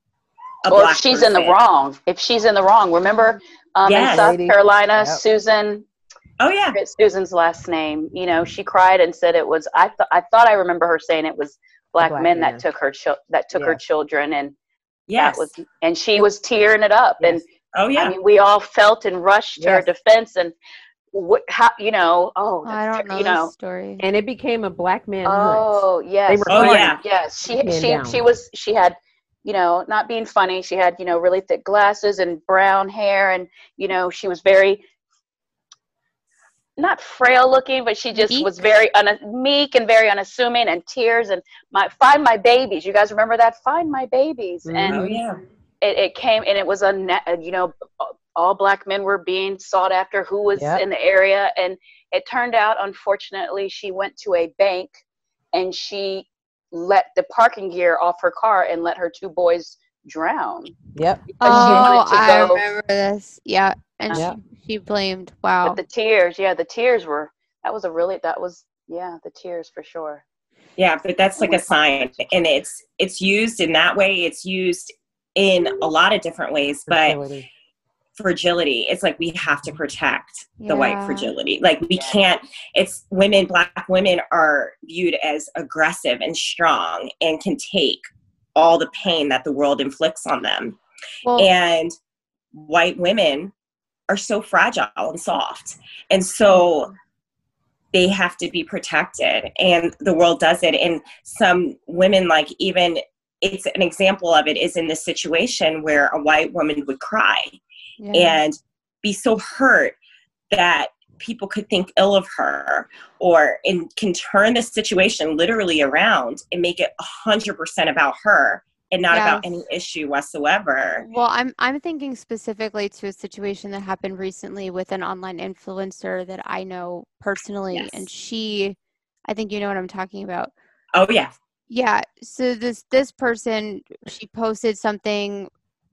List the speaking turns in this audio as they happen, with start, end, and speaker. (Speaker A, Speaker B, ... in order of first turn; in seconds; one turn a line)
Speaker A: 0.7-1.6
Speaker B: 0.7-5.9
Speaker A: 3.9-4.4
Speaker C: 4.0-5.2
Speaker A: 6.4-6.8
Speaker B: 6.7-14.6
Speaker C: 12.0-12.6
Speaker C: 13.5-13.8
Speaker A: 15.1-15.6
Speaker B: 15.2-17.4
Speaker A: 17.7-18.1
Speaker B: 17.9-20.6
Speaker C: 19.6-19.9
Speaker B: 21.1-23.5
Speaker D: 22.6-24.1
Speaker C: 24.0-28.2
Speaker B: 25.2-34.8
Speaker A: 26.5-27.0
Speaker B: 36.8-45.1
Speaker D: 38.2-38.5
Speaker C: 44.6-45.2
Speaker A: 44.9-45.4
Speaker B: 45.8-55.0
Speaker C: 50.6-50.8
Speaker B: 55.5-60.8
Speaker C: 61.0-61.9
Speaker B: 61.4-62.6
Speaker D: 61.4-65.8
Speaker B: 65.6-70.2
Speaker A: 70.8-77.2
Speaker C: 76.9-77.5
Speaker A: 78.2-90.8
Speaker D: 80.6-81.3
Speaker D: 91.2-91.5
Speaker A: 91.4-91.9
Speaker A: 92.5-93.5
Speaker A: 94.1-96.9
Speaker A: 97.9-107.6
Speaker D: 108.0-108.4
Speaker A: 108.1-110.0
Speaker A: 110.5-121.1
Speaker D: 119.1-119.6
Speaker D: 121.0-130.5
Speaker A: 130.9-131.3
Speaker D: 131.7-135.5